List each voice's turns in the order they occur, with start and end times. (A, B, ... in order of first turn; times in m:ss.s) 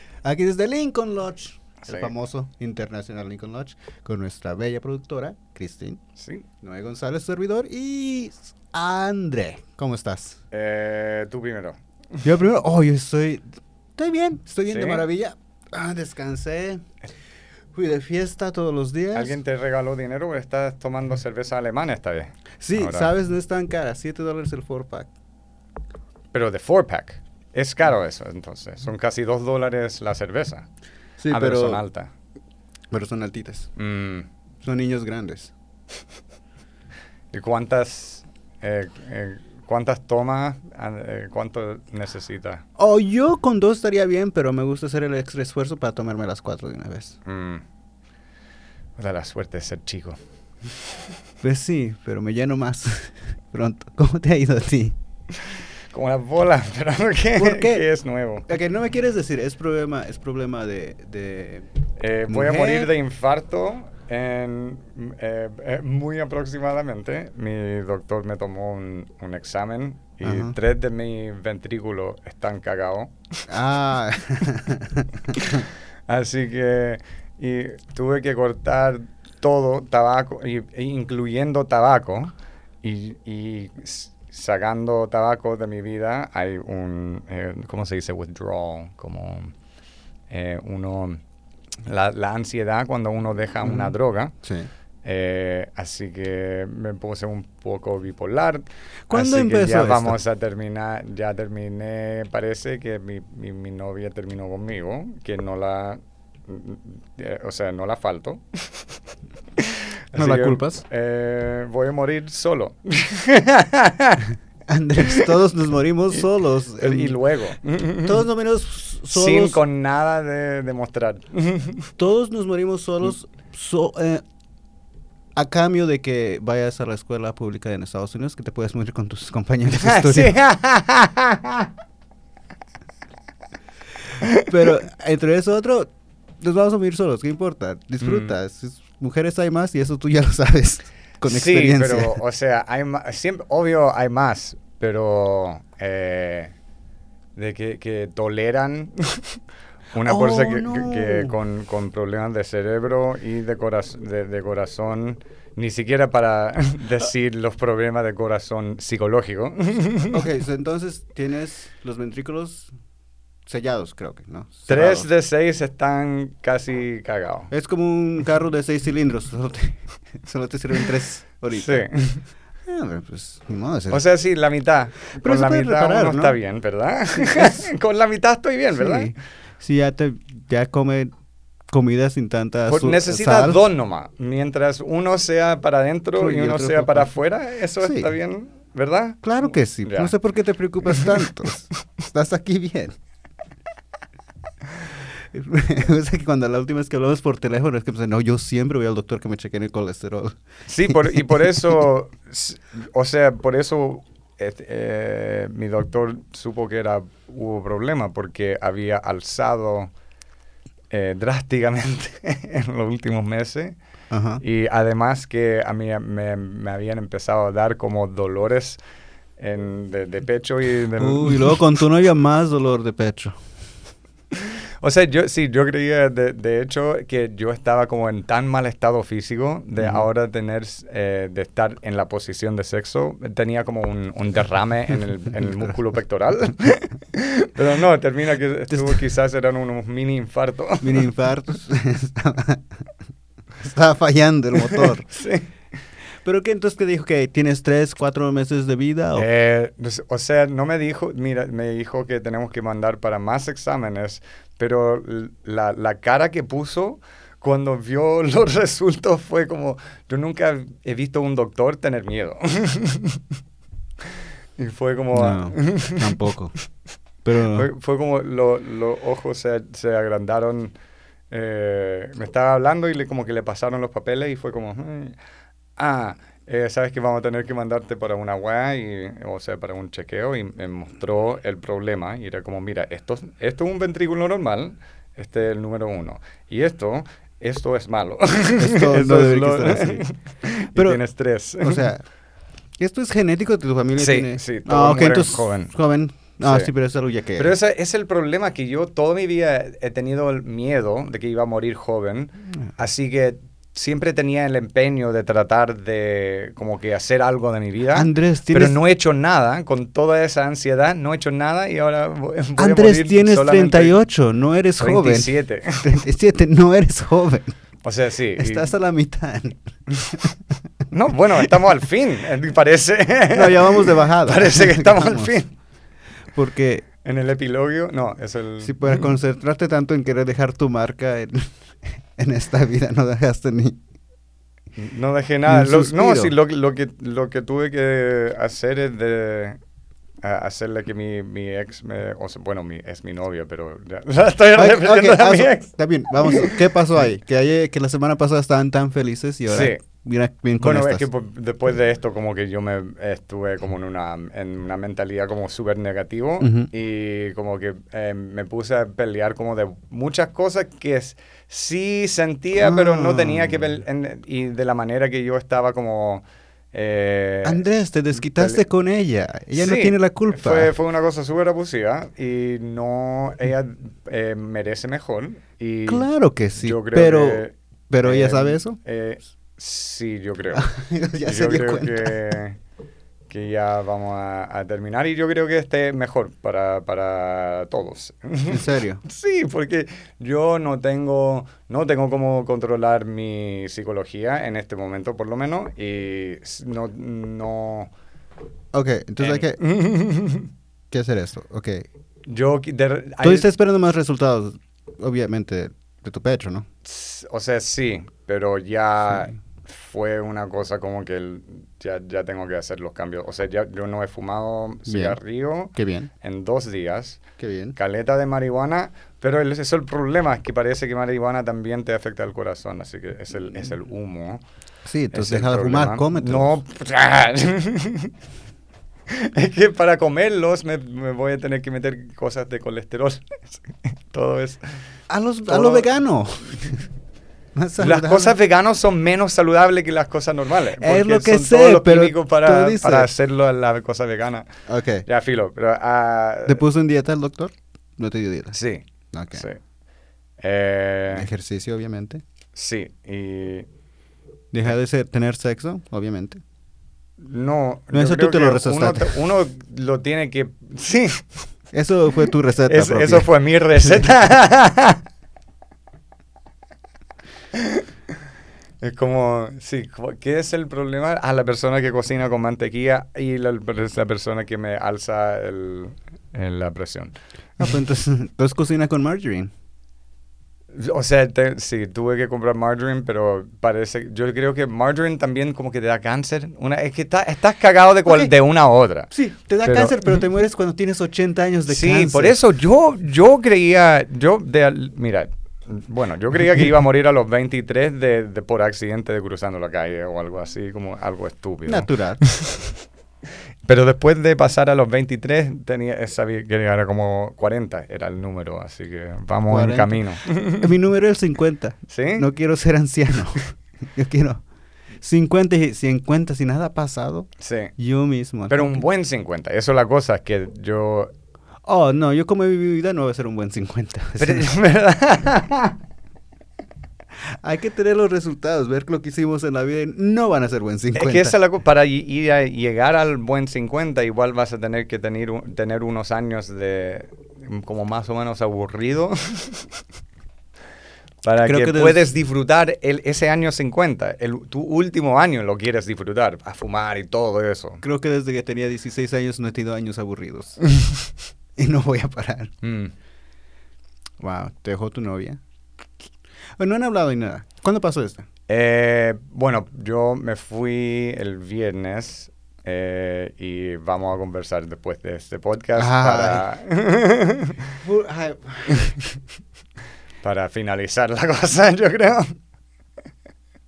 0:00.2-0:06.0 A
0:01.8-0:02.1 B
0:06.2-0:06.4 B
0:06.6-0:10.4 A
0:10.5-0:11.8 B
0:12.2-0:13.4 A
0:14.0-0:16.9 A
0:14.7-0:15.0 B
0:17.7-0:19.4 A
0:19.1-0:23.1 B
0:22.6-0:25.1 A
0:26.3-0:30.7 B
0:31.2-0:31.8 A
0:31.3-0:32.1 B
0:32.9-0:33.7 A
0:33.8-0:34.3 B
0:34.6-0:35.5 A
0:37.3-0:42.6 B
0:42.8-0:47.2 A
0:47.2-0:47.6 B
0:49.0-0:50.2 B
0:51.4-0:55.0 A
0:55.4-0:58.5 B
0:57.4-0:57.9 A
0:58.5-1:01.7 A
1:02.0-1:13.1 B
1:02.3-1:02.9 A
1:10.2-1:10.5 A
1:13.5-1:15.6 A
1:15.3-1:29.5 B
1:30.3-1:31.2 B
1:31.8-1:34.3 B
1:33.6-1:34.7 A
1:35.0-1:48.8 B
1:39.1-1:40.2 A
1:49.6-1:54.3 B
1:50.2-1:50.8 A
1:54.7-1:57.2 A
1:56.8-1:58.2 B
1:58.0-1:59.6 A
1:59.1-2:01.9 B
2:02.0-2:04.2 A
2:05.3-2:10.4 A
2:09.7-2:11.7 B
2:14.2-2:14.5 B
2:14.4-2:22.2 A
2:18.0-2:18.3 B
2:21.2-2:26.5 B
2:27.4-2:29.4 B
2:29.9-2:40.2 B
2:30.0-2:31.4 A
2:40.1-2:42.7 A
2:43.4-2:45.1 A
2:44.7-2:47.5 B
2:47.5-2:51.9 A
2:51.5-2:52.2 B
2:52.6-2:54.0 A
2:53.9-2:59.1 B
2:55.2-2:56.4 A
2:57.2-2:57.7 A
2:58.7-3:01.1 A
3:01.7-3:03.6 A
3:02.7-3:09.2 B
3:06.2-3:07.1 A
3:07.8-3:08.1 A
3:09.2-3:12.9 A
3:09.8-3:10.1 B
3:10.9-3:11.2 B
3:15.3-3:20.4 A
3:20.7-3:29.9 B
3:20.9-3:21.2 A
3:30.9-3:33.8 B
3:34.1-3:34.4 A
3:34.4-3:38.8 B
3:39.4-3:41.6 B
3:41.0-3:43.4 A
3:44.3-4:01.1 B
3:49.8-3:50.0 A
3:55.4-3:55.7 A
3:58.7-3:59.0 A
4:00.8-4:02.8 A
4:03.6-4:05.0 A
4:04.6-4:05.5 B
4:06.2-4:09.3 A
4:09.2-4:23.2 B
4:24.6-4:26.2 B
4:25.1-4:26.5 A
4:27.2-4:27.7 A
4:27.5-4:30.7 B
4:31.3-4:35.2 B
4:35.8-4:51.9 B
4:48.6-4:50.0 A
4:50.7-4:51.0 A
4:51.6-4:52.0 A
4:52.8-4:57.5 A
4:54.0-4:55.7 B
4:56.4-4:56.7 B
4:57.4-5:14.0 B
5:07.9-5:08.8 A
5:12.6-5:17.5 A
5:14.8-5:15.9 B
5:17.8-5:18.7 B
5:18.4-5:20.4 A
5:20.9-5:25.5 B
5:23.3-5:25.4 A
5:26.3-5:26.8 A
5:27.0-5:29.1 B
5:28.6-5:33.8 A
5:34.8-5:39.6 B
5:35.4-5:36.3 A
5:40.2-5:46.7 B
5:44.6-5:51.0 A
5:49.5-5:49.8 B
5:50.6-6:07.6 B
5:56.4-5:56.7 A
6:02.6-6:03.8 A
6:07.4-6:10.7 A
6:08.3-6:08.6 B
6:09.5-6:16.1 B
6:15.9-6:18.8 A
6:16.6-6:20.6 B
6:20.5-6:22.4 A
6:21.2-6:22.6 B
6:23.3-6:37.9 B
6:28.5-6:29.0 A
6:38.7-6:39.6 A
6:39.2-6:40.5 B
6:40.9-6:41.9 A
6:42.3-6:43.5 B
6:43.2-6:46.6 A
6:46.8-6:57.2 B
6:54.8-6:55.2 A
6:55.7-6:56.1 A
6:57.4-6:57.8 A
6:57.8-7:04.4 B
7:04.8-7:06.6 A
7:05.1-7:08.1 B
7:09.1-7:14.8 B
7:15.1-7:16.8 A
7:15.5-7:15.9 B
7:17.5-7:18.4 A
7:17.8-7:24.5 B
7:20.8-7:23.1 A
7:24.7-7:25.0 A
7:25.0-7:26.6 B
7:26.5-7:28.6 A
7:28.5-7:29.6 B
7:29.1-7:29.4 A
7:30.4-7:31.3 B
7:31.1-7:32.2 A
7:32.6-7:33.7 B
7:34.5-7:36.4 A
7:37.2-7:41.2 B
7:37.9-7:39.2 A
7:41.7-7:43.3 A
7:42.6-7:45.0 B
7:47.5-7:47.8 B
7:48.8-7:57.1 B
7:57.6-7:59.5 A
8:00.7-8:09.1 B
8:08.0-8:08.3 A
8:09.1-8:12.4 A
8:09.6-8:10.2 B
8:11.7-8:22.7 B
8:21.6-8:22.2 A
8:23.6-8:30.7 B
8:29.5-8:30.0 A
8:30.6-8:34.4 A
8:31.9-8:32.3 B
8:35.0-8:38.8 A
8:37.4-8:37.7 B
8:38.5-8:41.1 B
8:41.6-8:44.5 A
8:44.2-8:45.8 B
8:47.3-8:51.3 A
8:50.9-8:59.6 B
9:01.2-9:07.8 B
9:01.4-9:02.0 A
9:07.8-9:10.6 A
9:11.6-9:12.5 A
9:12.6-9:12.9 B
9:14.2-9:15.4 A
9:16.6-9:18.3 A
9:18.5-9:27.6 B
9:25.8-9:26.4 A
9:27.8-9:28.9 A
9:30.2-9:32.4 B